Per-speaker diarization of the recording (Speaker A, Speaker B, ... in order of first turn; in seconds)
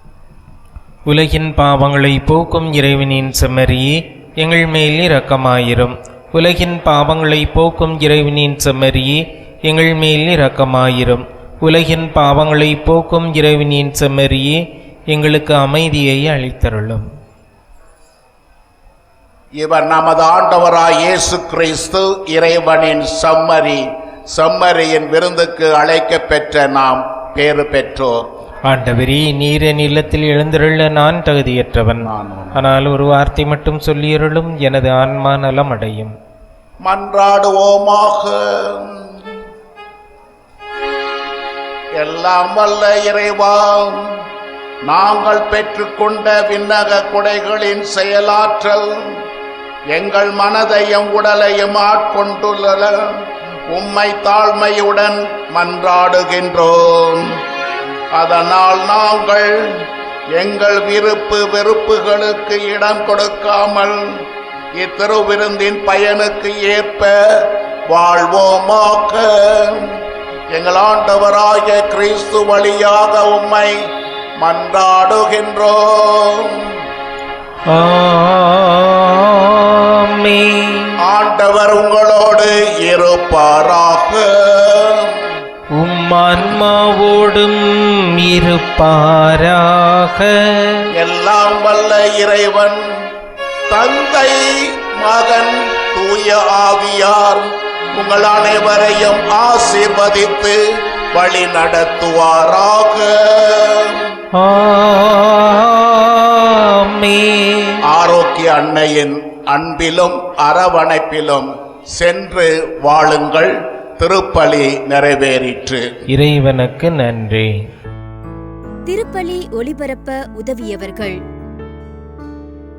Speaker A: 1.1-17.1, 28.7-36.1, 77.7-81.0, 85.7-90.9, 104.3-107.8, 116.1-117.5
Speaker B: 19.6-28.3, 32.0-32.6, 36.8-39.2, 42.0-44.1, 44.9-49.2, 49.9-53.1, 53.7-57.4, 58.1-59.8, 60.4-64.2, 64.8-70.0, 70.5-73.8, 74.4-76.7, 81.0-85.1, 91.0-92.9, 93.7-100.6, 101.1-104.0, 107.8-115.9
Speaker C: 118.9-121.2